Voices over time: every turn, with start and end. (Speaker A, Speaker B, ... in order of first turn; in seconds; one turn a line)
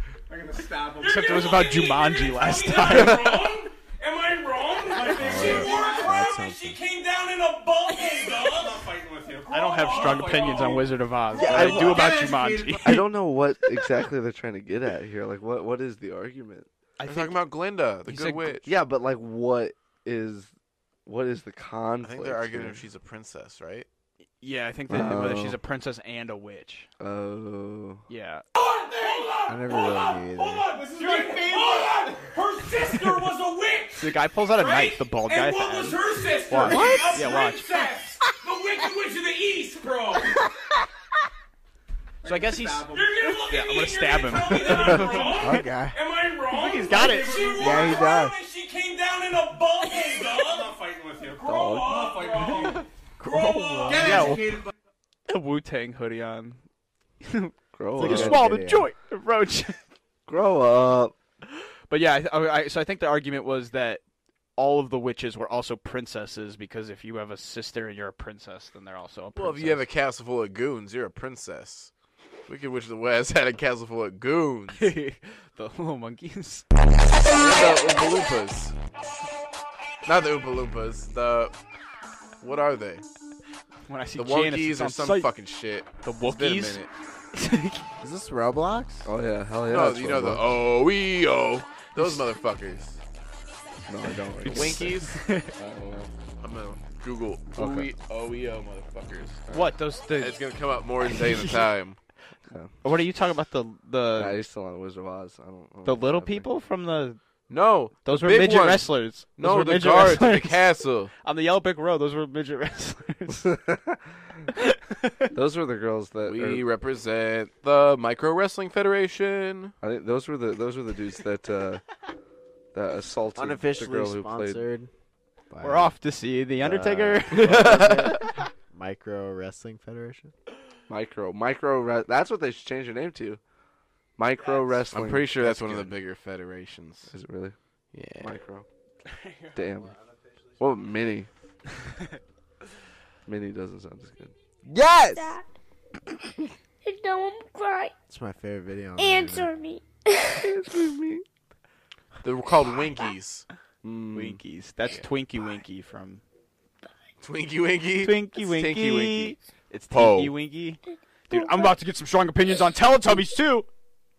Speaker A: 0.3-12.6
Speaker B: 1.0-3.2
Speaker B: 5.0-5.7
Speaker C: 5.2-6.8
Speaker B: 9.5-13.0
Speaker D: 11.4-12.2
Speaker D: 12.8-16.7
Speaker B: 17.0-17.4
Speaker E: 17.0-18.6
Speaker B: 18.1-18.6
Speaker D: 18.6-20.5
Speaker D: 21.1-22.8
Speaker E: 22.0-23.9
Speaker B: 24.4-26.9
Speaker D: 24.9-25.6
Speaker D: 27.0-28.0
Speaker B: 28.1-28.4
Speaker A: 28.6-40.3
Speaker C: 29.5-30.7
Speaker B: 34.0-36.0
Speaker B: 36.5-37.8
Speaker C: 36.6-37.2
Speaker B: 42.2-45.4
Speaker A: 42.3-54.4
Speaker C: 44.7-46.0
Speaker B: 46.5-47.7
Speaker C: 47.6-48.4
Speaker D: 51.5-52.6
Speaker B: 53.2-54.5
Speaker B: 55.3-56.6
Speaker B: 57.2-59.8
Speaker D: 57.7-58.5
Speaker C: 58.0-58.9
Speaker D: 60.3-61.1
Speaker B: 61.5-64.0
Speaker B: 64.6-69.8
Speaker E: 69.4-71.9
Speaker E: 72.5-74.9
Speaker B: 74.7-76.7
Speaker E: 77.3-78.8
Speaker E: 80.1-81.5
Speaker E: 82.4-83.0
Speaker B: 83.9-85.3
Speaker E: 84.2-86.9
Speaker B: 86.0-86.8
Speaker B: 87.3-87.8
Speaker C: 88.0-89.1
Speaker D: 89.0-90.5
Speaker E: 89.7-93.0
Speaker D: 93.9-94.9
Speaker B: 94.5-95.5
Speaker E: 94.5-95.2
Speaker D: 95.6-96.1
Speaker E: 96.4-99.5
Speaker D: 97.6-97.9
Speaker B: 99.5-100.4
Speaker E: 100.2-102.0
Speaker B: 101.0-101.7
Speaker B: 102.8-104.4
Speaker D: 104.2-106.5
Speaker B: 105.8-107.2
Speaker E: 107.5-111.1
Speaker B: 108.0-110.6
Speaker B: 111.2-113.4
Speaker D: 113.3-114.3
Speaker B: 114.6-115.2
Speaker D: 115.3-116.7
Speaker E: 116.2-119.8
Speaker D: 119.8-121.8
Speaker D: 122.7-124.7
Speaker C: 123.4-124.9
Speaker C: 125.5-125.9
Speaker B: 125.6-127.7
Speaker D: 126.6-128.0
Speaker C: 127.4-128.2
Speaker E: 127.4-128.2
Speaker C: 128.7-130.3
Speaker D: 130.9-133.4
Speaker D: 134.2-135.9
Speaker E: 134.9-137.1
Speaker D: 137.1-137.6
Speaker E: 137.9-138.3
Speaker D: 138.2-138.7
Speaker B: 139.1-139.7
Speaker D: 139.5-139.9
Speaker D: 140.6-141.3
Speaker D: 143.3-144.3
Speaker C: 144.7-145.4
Speaker F: 145.2-145.4
Speaker F: 146.8-147.9
Speaker C: 148.1-149.5
Speaker F: 149.0-150.5
Speaker D: 150.4-151.2
Speaker E: 152.2-153.5
Speaker D: 153.8-154.4
Speaker B: 154.1-156.2
Speaker E: 157.2-159.4
Speaker B: 158.0-163.7
Speaker E: 159.9-160.3
Speaker F: 161.3-161.8